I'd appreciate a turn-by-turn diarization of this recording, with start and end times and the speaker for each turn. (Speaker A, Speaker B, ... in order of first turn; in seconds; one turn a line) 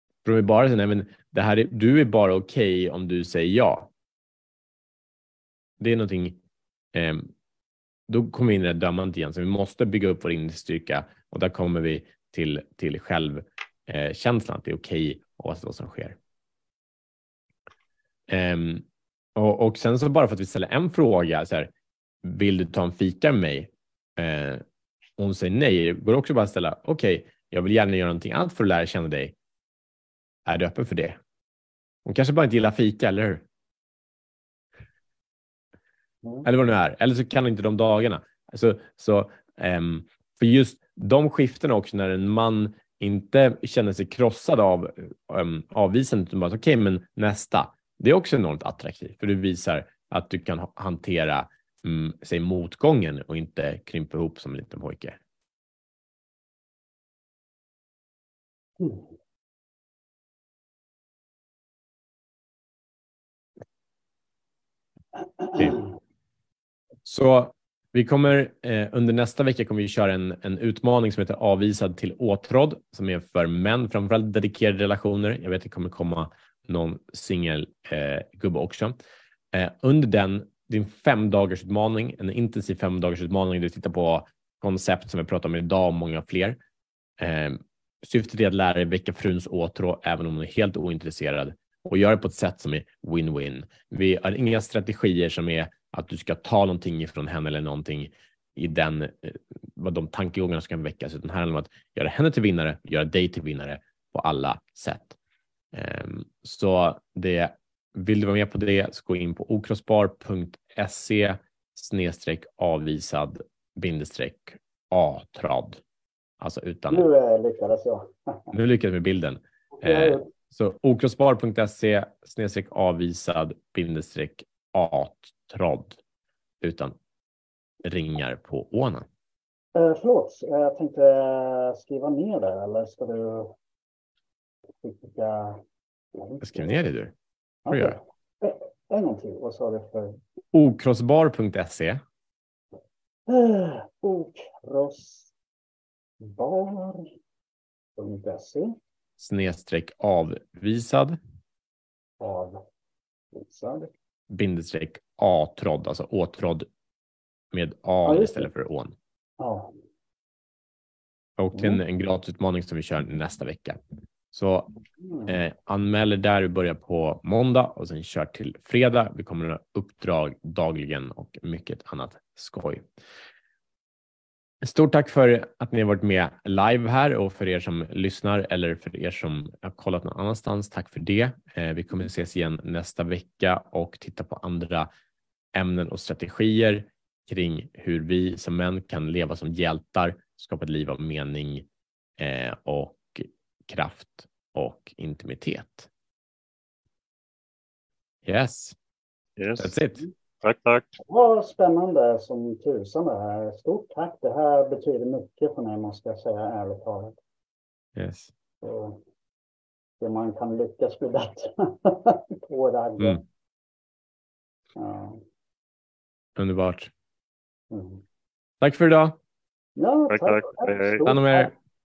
Speaker A: 0.2-3.9
Speaker A: 5.8-6.4
Speaker A: 6.9-7.3
Speaker A: 8.1-16.2
Speaker A: 18.3-18.8
Speaker A: 19.4-21.7
Speaker A: 22.2-24.6
Speaker A: 25.2-29.3
Speaker A: 30.4-31.2
Speaker A: 32.0-33.4
Speaker A: 36.4-55.2
Speaker B: 65.4-65.8
Speaker A: 67.0-78.9
Speaker A: 79.5-86.6
Speaker A: 87.2-105.2
Speaker A: 105.7-115.8
Speaker A: 116.4-117.0
Speaker B: 116.9-118.5
Speaker A: 118.5-126.0
Speaker B: 119.8-120.3
Speaker A: 126.6-126.9
Speaker A: 127.8-129.1
Speaker B: 129.7-133.5
Speaker B: 134.8-135.6
Speaker B: 136.1-136.7
Speaker A: 136.4-137.1
Speaker B: 137.7-140.2
Speaker A: 137.7-138.0
Speaker A: 140.5-142.0
Speaker B: 143.3-145.3
Speaker B: 146.2-147.1
Speaker B: 147.9-148.7
Speaker A: 149.2-151.2
Speaker B: 152.2-152.6
Speaker B: 153.3-153.9
Speaker A: 154.3-156.7
Speaker A: 157.5-158.9
Speaker B: 158.0-158.5
Speaker B: 159.4-159.7
Speaker A: 161.4-163.8
Speaker B: 161.5-161.8
Speaker A: 164.3-164.7
Speaker B: 165.0-165.3
Speaker A: 165.2-172.8
Speaker A: 174.6-184.9
Speaker A: 185.5-191.7
Speaker A: 192.2-195.9
Speaker A: 198.2-198.8
Speaker C: 199.4-199.8
Speaker A: 199.6-200.0
Speaker C: 200.4-201.0
Speaker B: 201.0-207.2
Speaker A: 207.9-208.3
Speaker B: 208.6-209.0
Speaker B: 210.0-213.2
Speaker B: 214.8-215.2
Speaker A: 216.4-216.9
Speaker B: 217.7-218.0
Speaker A: 218.6-219.2
Speaker B: 219.8-221.5
Speaker C: 220.1-221.0
Speaker A: 221.1-221.5